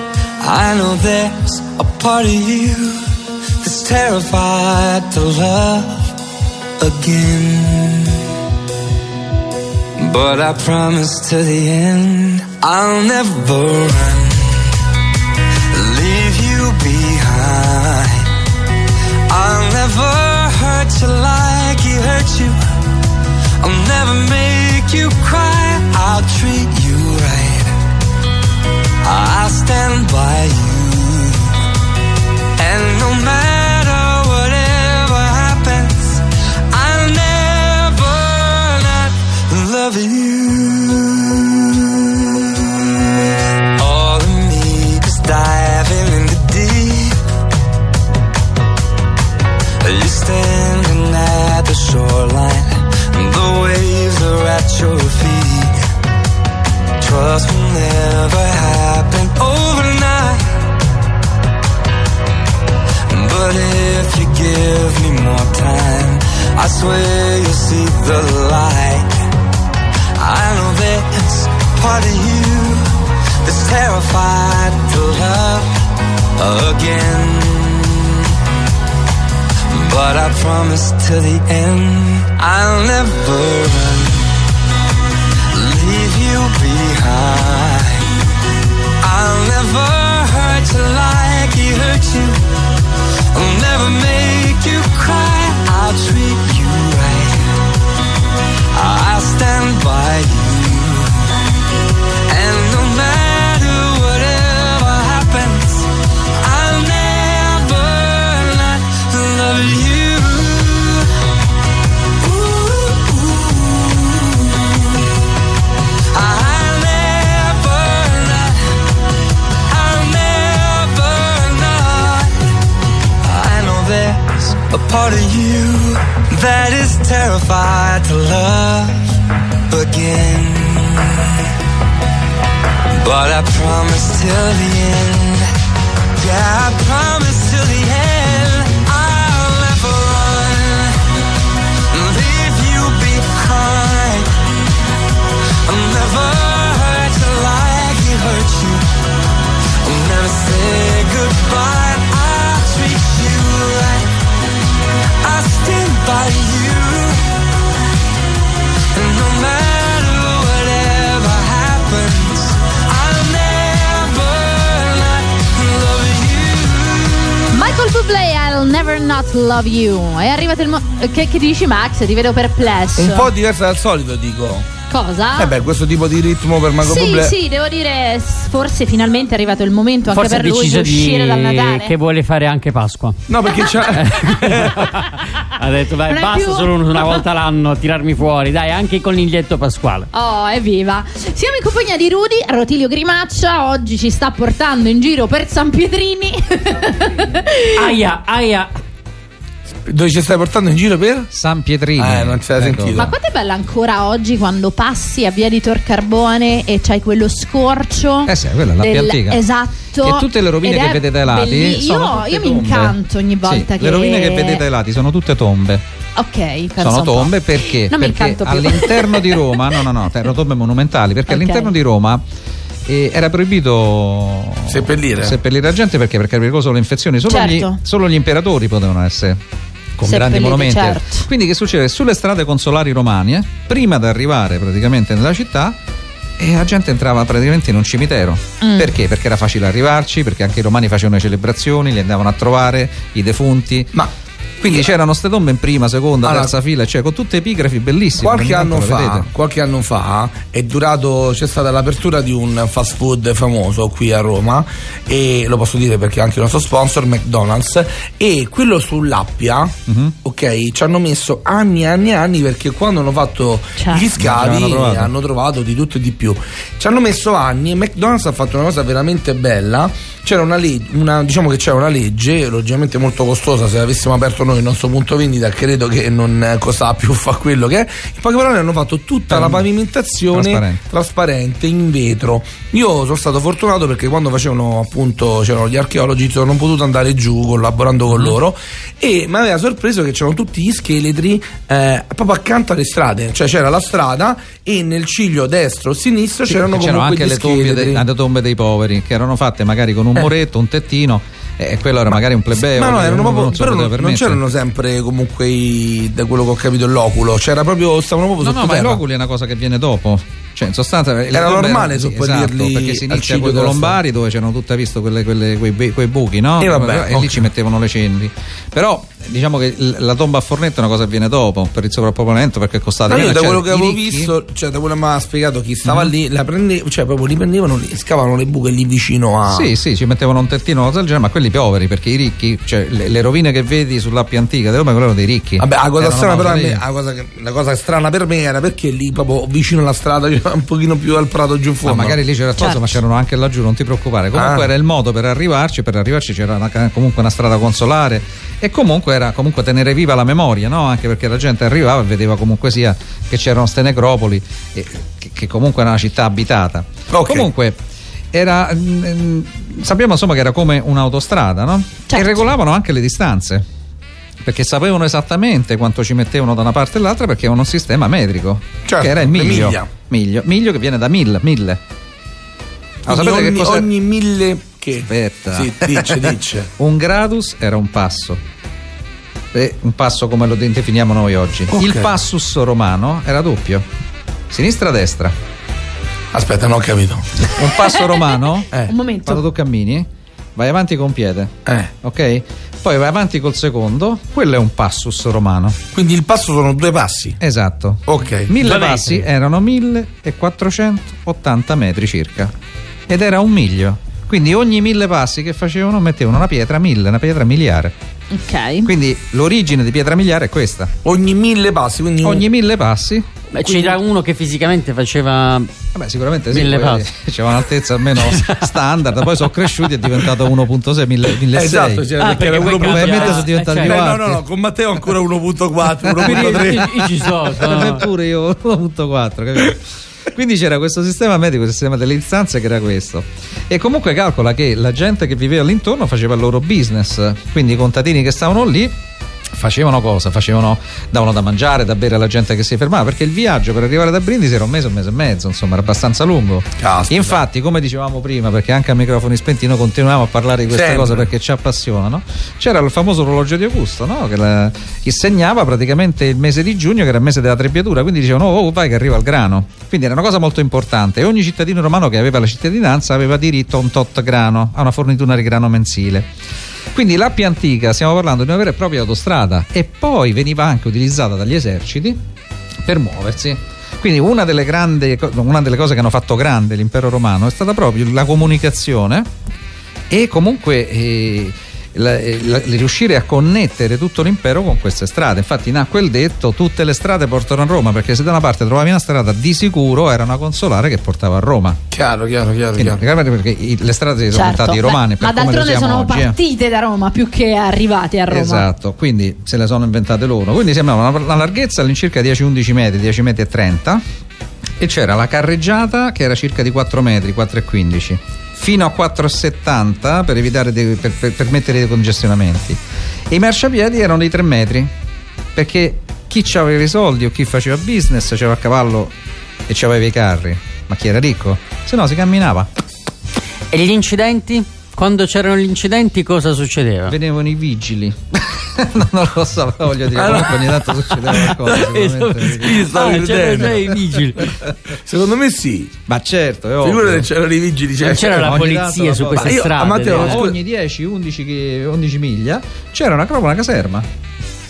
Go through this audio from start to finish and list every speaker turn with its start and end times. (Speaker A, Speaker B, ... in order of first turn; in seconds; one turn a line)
Speaker A: 0.4-3.0
Speaker A: 3.6-6.1
Speaker A: 6.8-8.2
Speaker A: 10.0-14.7
Speaker A: 15.7-18.3
Speaker A: 19.3-22.6
Speaker A: 23.6-27.8
Speaker A: 29.0-31.6
Speaker A: 32.6-43.1
Speaker A: 43.8-47.2
Speaker A: 49.8-55.8
Speaker A: 57.0-60.4
Speaker A: 63.1-69.2
Speaker A: 70.2-72.8
Speaker A: 73.4-75.7
Speaker A: 76.4-78.3
Speaker A: 79.7-84.3
Speaker A: 85.5-88.1
Speaker A: 89.0-92.4
Speaker A: 93.3-97.5
Speaker A: 98.7-101.5
Speaker A: 102.3-105.9
Speaker A: 106.4-111.1
Speaker A: 112.2-115.1
Speaker A: 116.1-118.6
Speaker A: 119.7-122.4
Speaker A: 123.2-129.2
Speaker A: 129.7-131.5
Speaker A: 132.9-135.5
Speaker A: 136.2-141.0
Speaker A: 141.9-144.3
Speaker A: 145.6-148.8
Speaker A: 149.8-154.1
Speaker A: 155.2-157.2
Speaker A: 158.9-167.6
Speaker B: 167.5-173.3
Speaker C: 172.9-174.7
Speaker B: 174.9-175.5
Speaker C: 175.4-177.3
Speaker B: 176.8-181.9
Speaker D: 180.1-190.1
Speaker C: 183.3-185.0
Speaker B: 186.1-187.2
Speaker B: 190.1-197.9
Speaker D: 197.7-198.7
Speaker C: 199.8-201.3
Speaker E: 201.3-203.1
Speaker C: 201.9-203.1
Speaker B: 202.9-214.6
Speaker E: 208.2-209.4
Speaker E: 210.0-215.8
Speaker B: 216.2-219.6
Speaker E: 216.8-222.2
Speaker B: 221.3-221.7
Speaker E: 222.8-229.4
Speaker C: 224.7-225.4
Speaker B: 227.3-227.8
Speaker E: 230.0-235.8
Speaker B: 230.0-231.3
Speaker E: 236.4-244.0
Speaker B: 238.6-238.9
Speaker E: 244.6-249.3
Speaker C: 246.2-246.5
Speaker C: 248.2-298.0
Speaker E: 259.9-260.1
Speaker B: 263.8-264.1
Speaker E: 264.1-265.1
Speaker E: 279.3-279.7
Speaker E: 280.3-280.8
Speaker E: 296.5-304.4
Speaker C: 302.1-309.0
Speaker E: 308.4-324.3
Speaker C: 311.3-314.0
Speaker C: 316.6-317.4
Speaker C: 323.1-329.7
Speaker E: 325.8-326.1
Speaker E: 329.4-336.8
Speaker C: 335.6-342.2
Speaker E: 341.8-357.8
Speaker B: 342.6-342.9
Speaker C: 344.3-344.6
Speaker C: 357.1-357.5
Speaker E: 358.3-363.6
Speaker B: 362.1-362.4
Speaker E: 364.4-371.8
Speaker C: 368.9-369.9
Speaker E: 373.0-373.9
Speaker C: 373.1-376.7
Speaker E: 375.1-378.4
Speaker E: 379.5-383.8
Speaker C: 381.7-382.1
Speaker E: 384.5-385.3
Speaker C: 386.3-387.5
Speaker E: 387.4-388.7
Speaker B: 387.7-388.2
Speaker B: 388.8-389.4
Speaker E: 389.2-395.8
Speaker C: 391.6-391.9
Speaker C: 395.9-397.4
Speaker E: 397.4-402.5
Speaker C: 398.1-398.5
Speaker D: 398.6-399.2
Speaker E: 403.1-407.9
Speaker B: 408.3-408.9
Speaker E: 408.8-410.9
Speaker C: 411.0-412.4
Speaker E: 412.2-413.3
Speaker D: 413.5-415.7
Speaker E: 415.9-424.4
Speaker D: 416.5-417.1
Speaker D: 418.1-418.7
Speaker C: 421.5-426.9
Speaker D: 422.2-424.0
Speaker D: 426.1-428.1
Speaker E: 426.2-438.9
Speaker E: 439.5-466.3
Speaker C: 446.8-447.4
Speaker C: 450.7-451.2
Speaker E: 466.9-472.2
Speaker E: 472.8-479.3
Speaker E: 480.1-491.8
Speaker C: 491.9-493.0
Speaker E: 492.8-496.4
Speaker B: 494.3-498.7
Speaker E: 498.3-504.0
Speaker E: 504.8-514.9
Speaker E: 515.5-519.1
Speaker E: 519.7-522.7
Speaker D: 523.7-527.1
Speaker E: 527.1-532.9
Speaker C: 530.1-531.3
Speaker D: 531.4-534.5
Speaker C: 532.5-533.9
Speaker C: 534.9-535.9
Speaker E: 536.1-537.3
Speaker C: 536.8-538.6
Speaker D: 538.0-540.4
Speaker E: 538.3-544.1
Speaker C: 539.4-540.5